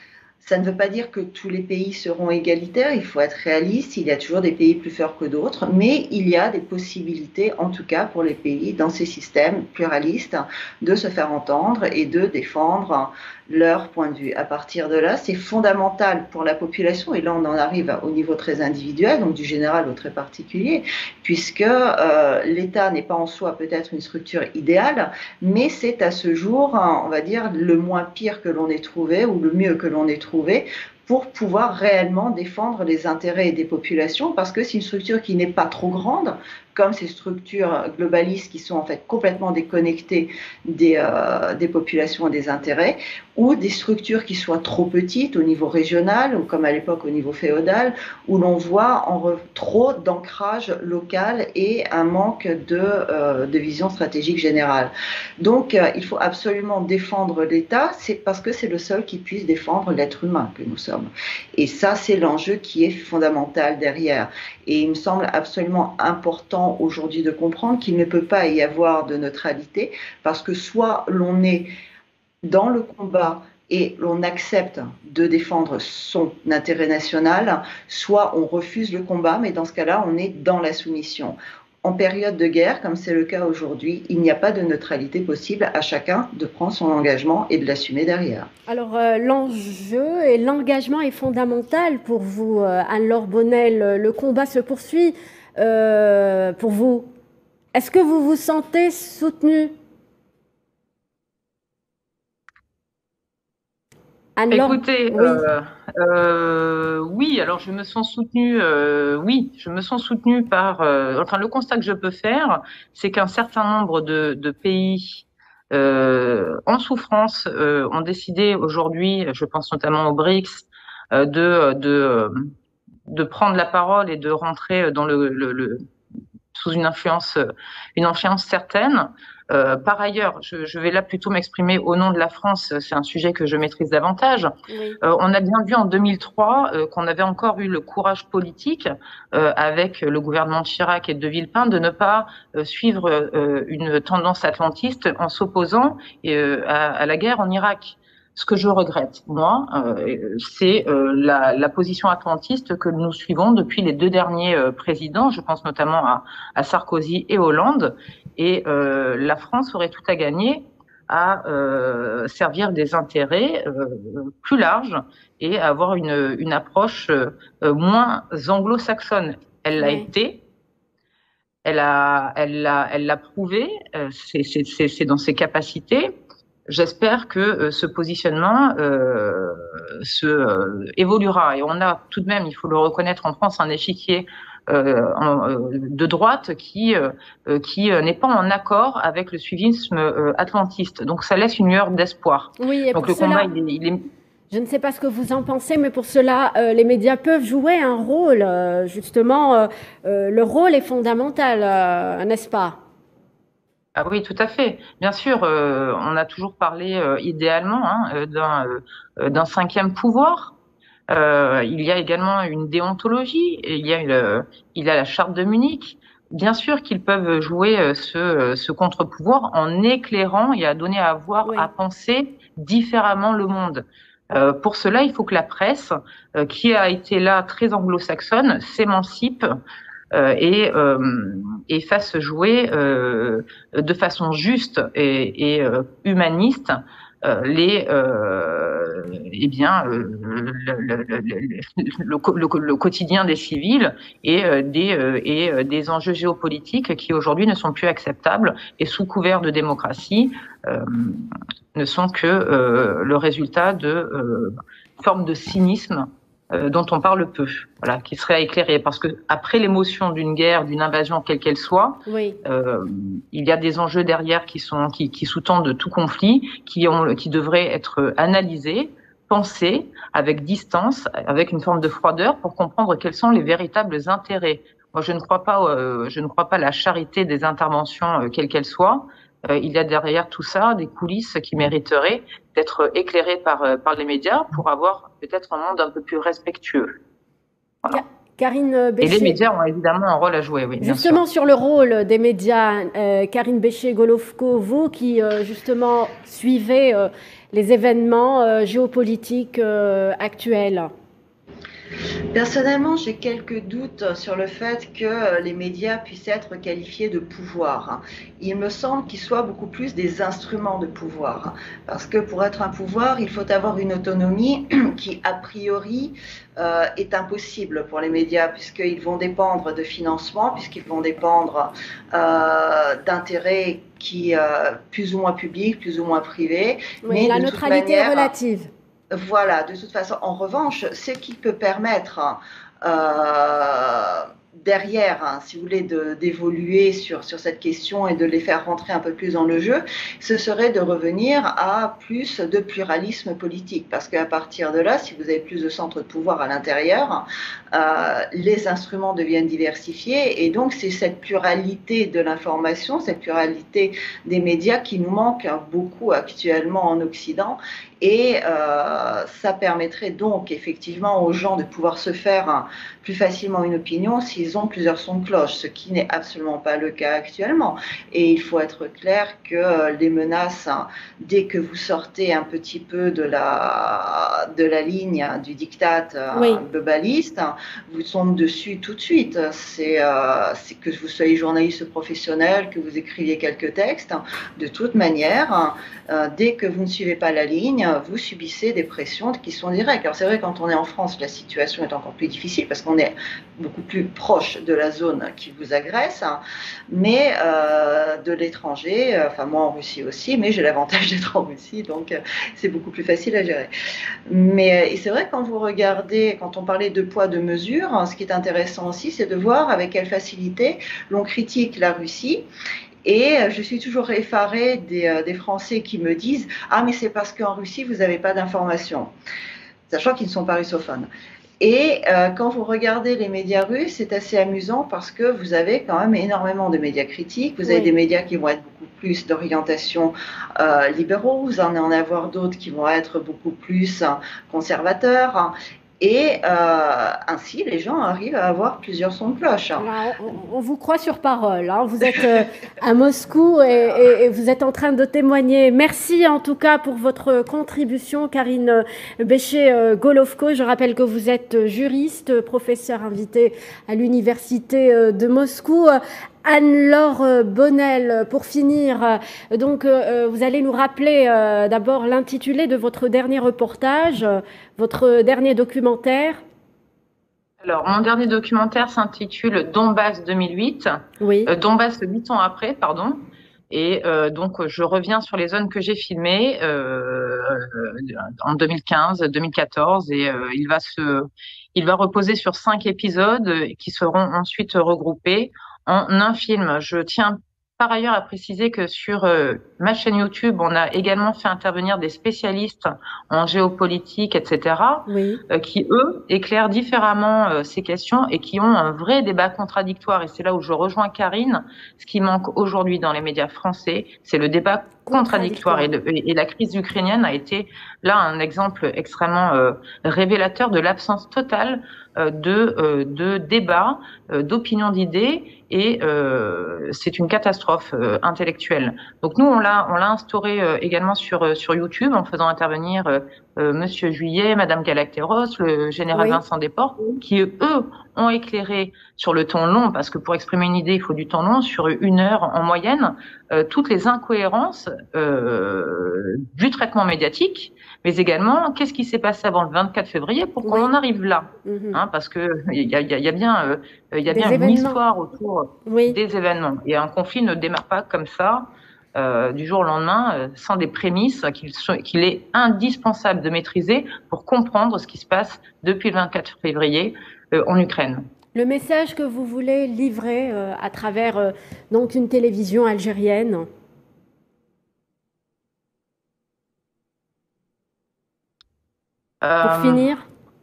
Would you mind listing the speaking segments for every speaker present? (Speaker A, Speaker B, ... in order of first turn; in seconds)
Speaker A: 0.4-71.7, 72.4-88.5, 302.3-328.3, 329.1-403.7, 404.3-412.4, 413.0-419.1, 419.9-421.1, 421.6-439.9
Speaker B: 88.7-97.1, 97.7-99.7, 104.4-105.4, 134.7-135.0, 169.8-170.1, 192.6-193.5, 194.5-202.8, 262.1-262.4, 287.9-289.4, 290.8-300.9, 327.0-328.7, 376.3-376.6, 439.8-466.4, 471.2-471.5, 495.1-495.4, 505.1-505.9, 526.1-526.4, 540.6-540.9, 541.6-542.0, 544.3-545.0, 545.9-546.2, 558.5-563.7, 569.6-570.3
Speaker C: 104.5-122.5, 123.1-125.8, 126.5-134.5, 135.0-170.4, 171.6-176.1, 176.7-194.0, 203.9-210.5, 211.1-229.6, 230.1-286.9, 289.0-291.2, 467.6-558.3, 569.4-570.0